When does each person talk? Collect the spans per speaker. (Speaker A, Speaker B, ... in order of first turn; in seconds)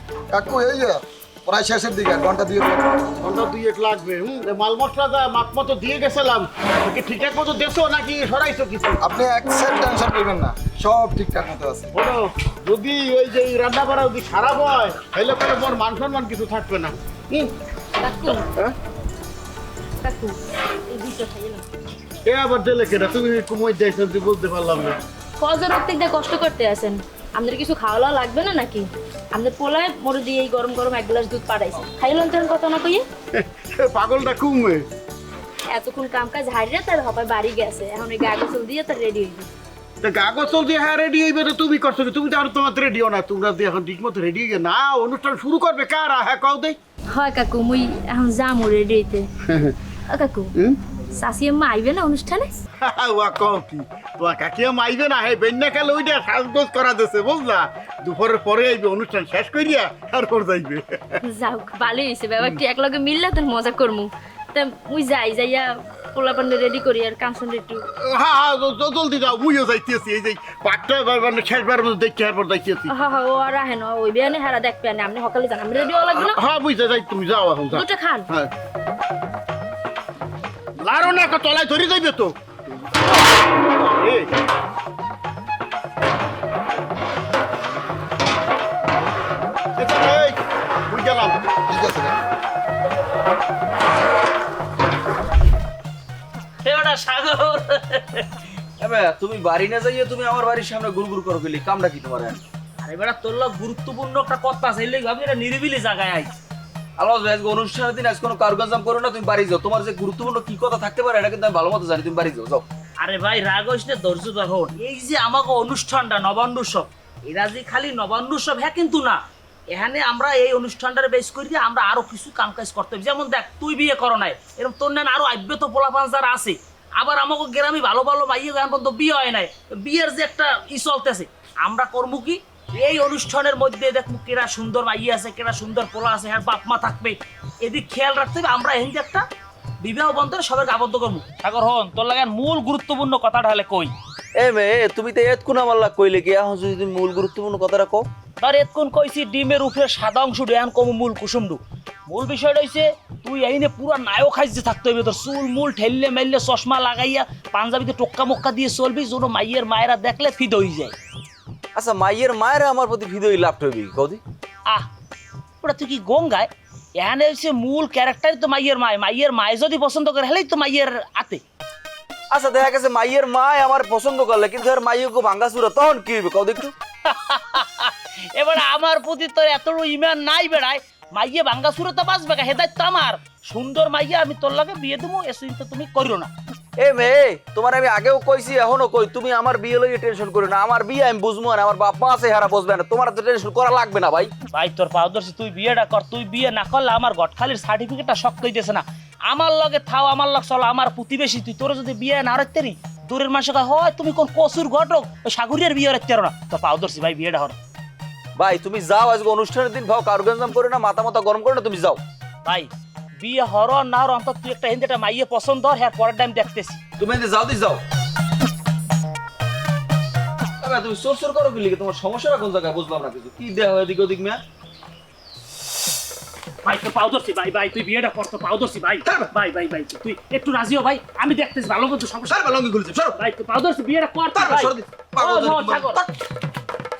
Speaker A: 0.3-2.8, 9.0-11.9, 91.7-92.2
Speaker B: 3.2-9.0, 11.9-17.5, 22.2-25.0, 33.4-34.8, 40.0-46.8, 49.5-49.7, 52.8-61.2, 67.9-72.9, 76.1-78.5, 80.8-82.3, 82.9-84.3, 89.8-91.4
Speaker C: 18.0-18.5, 20.0-20.4, 20.9-21.6, 25.4-33.0, 35.7-39.5, 47.1-49.3, 50.1-50.5, 51.1-52.6, 61.2-67.9, 72.9-76.4, 77.7-78.3
Speaker D: 96.6-98.3, 102.8-106.3, 113.0-139.2, 139.8-143.9, 148.4-160.9, 165.6-171.4, 177.0-186.3, 194.5-207.6, 212.4-216.8, 226.6-232.4, 233.2-236.0
Speaker E: 98.8-102.4, 107.0-112.6, 144.3-148.1, 161.7-164.2, 172.3-176.7, 186.8-194.3, 208.3-212.0, 217.0-217.8, 220.6-224.4, 229.1-229.3, 232.3-233.2, 234.3-236.1